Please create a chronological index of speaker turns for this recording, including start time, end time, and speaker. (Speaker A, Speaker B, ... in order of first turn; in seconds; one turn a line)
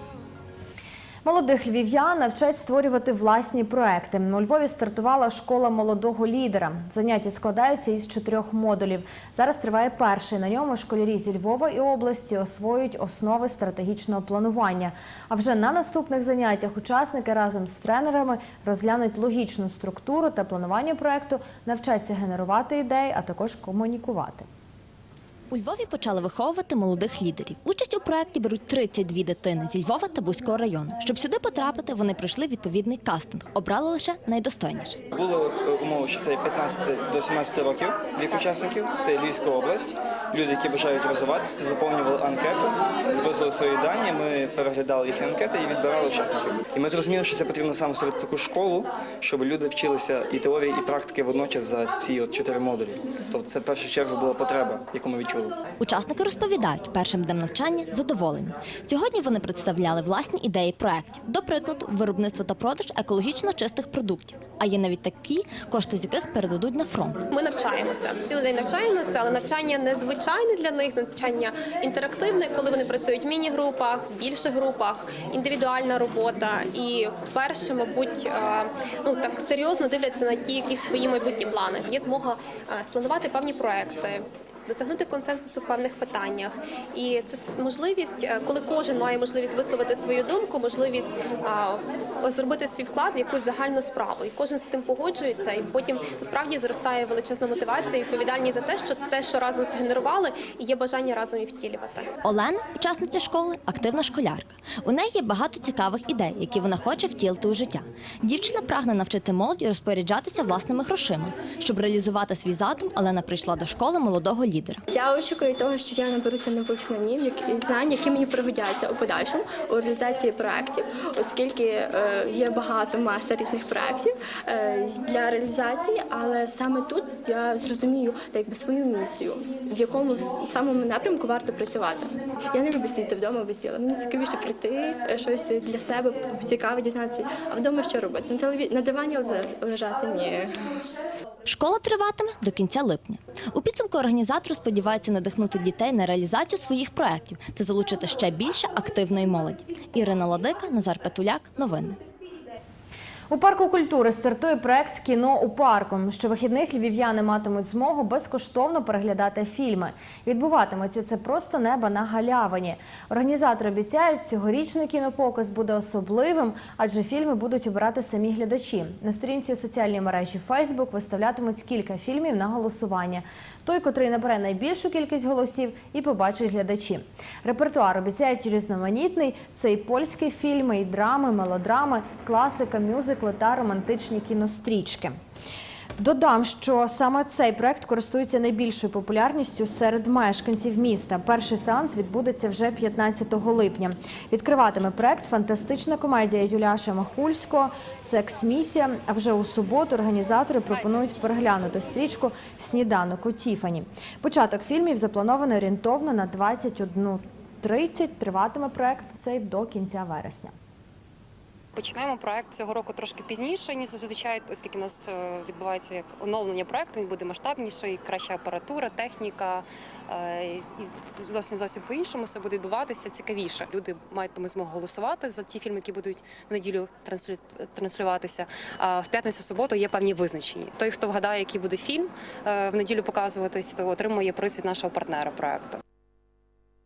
Speaker A: 1.2-24.5
Speaker B: 25.5-35.0
Speaker C: 35.1-55.5
Speaker B: 55.8-67.2
Speaker D: 67.3-102.1
Speaker B: 102.2-114.8
Speaker E: 114.9-140.5
Speaker B: 141.4-152.0
Speaker A: 153.3-185.2
Speaker A: 186.0-210.5
Speaker F: 211.7-235.8